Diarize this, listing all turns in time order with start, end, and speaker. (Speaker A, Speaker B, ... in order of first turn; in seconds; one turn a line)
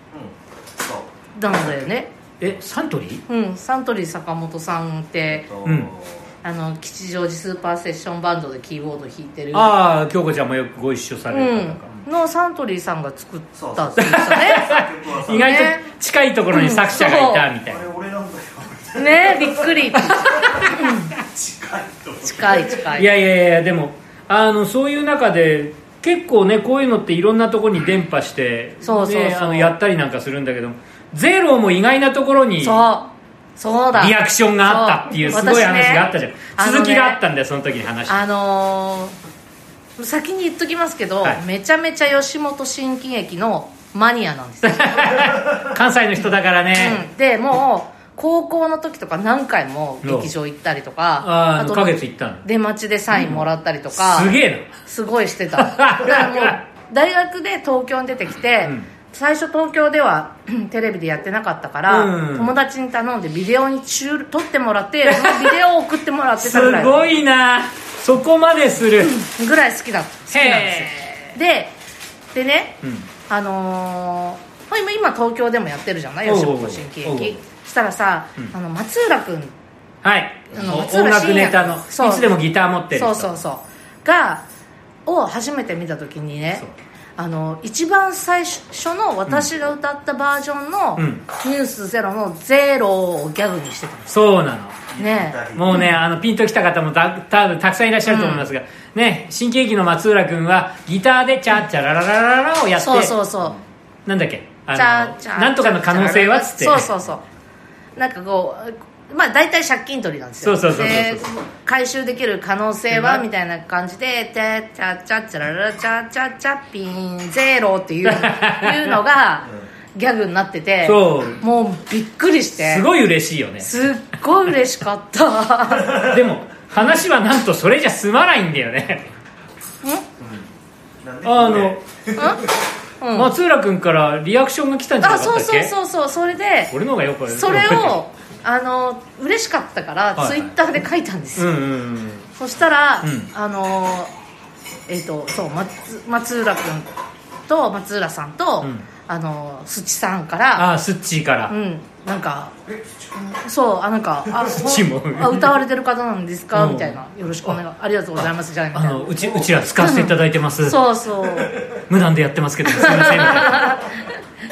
Speaker A: 0.1-1.1
Speaker B: 1.4-2.1
Speaker C: 2.4-3.2
Speaker B: 3.3-5.5
Speaker A: 5.3-6.3
Speaker C: 5.7-5.9
Speaker B: 6.4-9.7
Speaker C: 9.5-11.9
Speaker B: 11.3-14.7
Speaker A: 13.6-15.6
Speaker C: 14.0-17.9
Speaker B: 15.3-15.9
Speaker B: 16.5-17.5
Speaker A: 17.6-23.0
Speaker B: 18.9-21.1
Speaker B: 22.2-23.1
Speaker C: 22.9-32.8
Speaker B: 28.8-29.8
Speaker B: 32.6-37.2
Speaker C: 34.0-38.2
Speaker B: 38.1-39.1
Speaker B: 40.0-45.4
Speaker C: 44.6-47.0
Speaker B: 46.7-67.0
Speaker C: 50.0-50.3
Speaker C: 51.2-52.5
Speaker C: 53.1-54.7
Speaker C: 55.6-56.6
Speaker C: 61.9-62.5
Speaker C: 65.1-65.5
Speaker C: 66.4-69.2
Speaker B: 69.0-71.8
Speaker C: 70.3-71.1
Speaker B: 72.3-79.5
Speaker C: 72.8-73.1
Speaker C: 76.2-77.4
Speaker C: 80.0-83.3
Speaker B: 80.5-82.4
Speaker B: 82.9-84.4
Speaker B: 85.1-86.6
Speaker B: 87.2-94.2
Speaker C: 91.0-91.2
Speaker C: 94.1-94.8
Speaker A: 94.9-95.8
Speaker B: 95.0-95.8
Speaker C: 95.5-103.2
Speaker B: 98.0-98.5
Speaker B: 102.8-103.6
Speaker C: 104.1-106.9
Speaker B: 104.7-107.2
Speaker B: 108.0-122.9
Speaker C: 110.4-111.3
Speaker C: 112.9-113.2
Speaker C: 118.1-119.0
Speaker C: 120.8-121.4
Speaker C: 122.6-123.7
Speaker B: 123.6-126.1
Speaker C: 125.9-129.1
Speaker A: 130.2-130.5
Speaker A: 131.0-132.2
Speaker C: 131.2-131.8
Speaker B: 132.2-132.4
Speaker B: 133.0-133.3
Speaker C: 133.2-135.7
Speaker B: 135.0-136.7
Speaker C: 136.7-138.0
Speaker B: 137.3-141.6
Speaker C: 140.2-140.5
Speaker C: 141.4-142.3
Speaker B: 142.4-144.1
Speaker C: 143.0-143.3
Speaker B: 144.9-146.9
Speaker B: 147.5-150.7
Speaker C: 150.6-151.5
Speaker B: 151.5-152.5
Speaker B: 153.2-160.1
Speaker C: 154.4-155.6
Speaker C: 156.5-157.6
Speaker C: 158.7-160.8
Speaker B: 160.7-161.6
Speaker C: 161.7-163.8
Speaker B: 162.7-163.9